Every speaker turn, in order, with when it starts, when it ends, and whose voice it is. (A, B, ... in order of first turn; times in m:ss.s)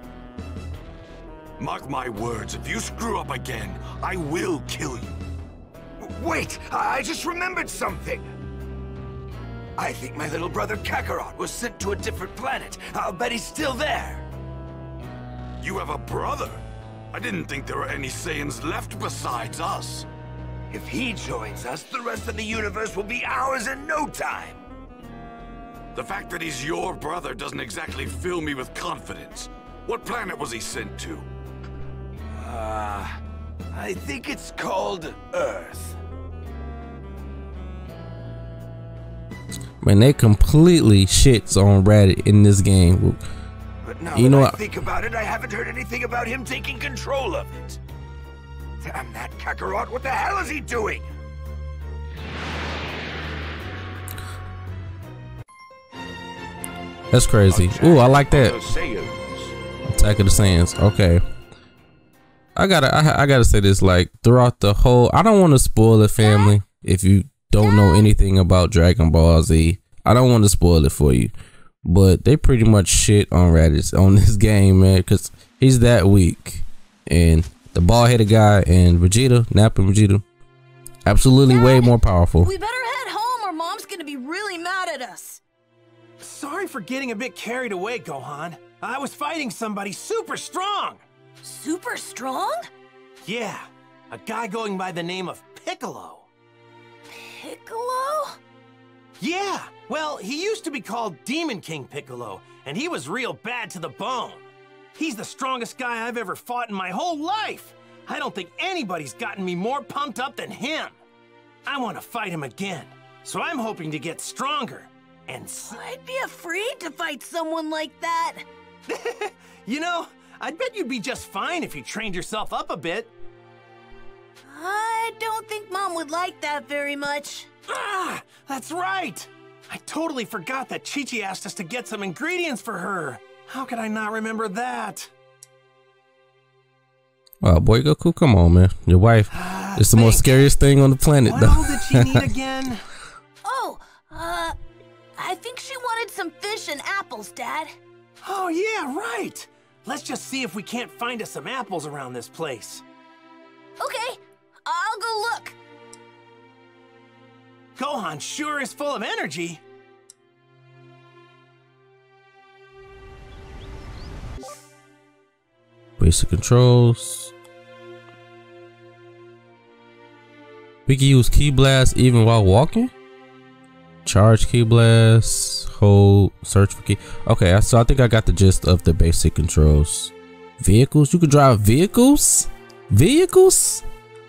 0:01.6-0:05.2 A
0:06.0-0:08.3 B
0:09.8-0:14.3 B
0:15.6-0:20.1 A
0:20.7-0:24.6 B
0:26.0-0:31.3 A
0:32.5-0:33.1 A
0:33.7-0:36.0 B
0:39.8-0:43.2 C
0:43.8-0:47.8 B
0:44.1-0:44.6 C
0:48.8-0:51.0 B
0:57.1-0:58.6 C
0:57.6-0:59.3 A
0:59.9-1:01.2 C
1:02.6-1:11.3 C
1:06.2-1:06.6 D
1:07.6-1:08.1 D
1:11.8-1:20.2 C
1:21.1-1:22.5 C
1:21.5-1:25.4 D
1:26.2-1:31.0 E
1:31.4-1:32.7 D
1:33.2-1:36.3 E
1:37.1-1:38.4 D
1:39.2-1:44.4 E
1:45.0-1:50.9 E
1:51.7-1:55.8 E
1:55.7-1:58.4 D
1:58.9-2:03.1 E
2:04.5-2:07.5 D
2:07.7-2:15.1 E
2:17.4-2:22.3 C
2:19.3-2:20.4 E
2:21.3-2:22.9 E
2:23.4-2:24.6 D
2:25.2-2:27.7 D
2:28.2-2:32.8 E
2:33.8-2:35.6 D
2:37.8-2:39.6 E
2:46.0-2:47.3 C
2:50.9-2:52.9 C
2:54.0-3:03.8 C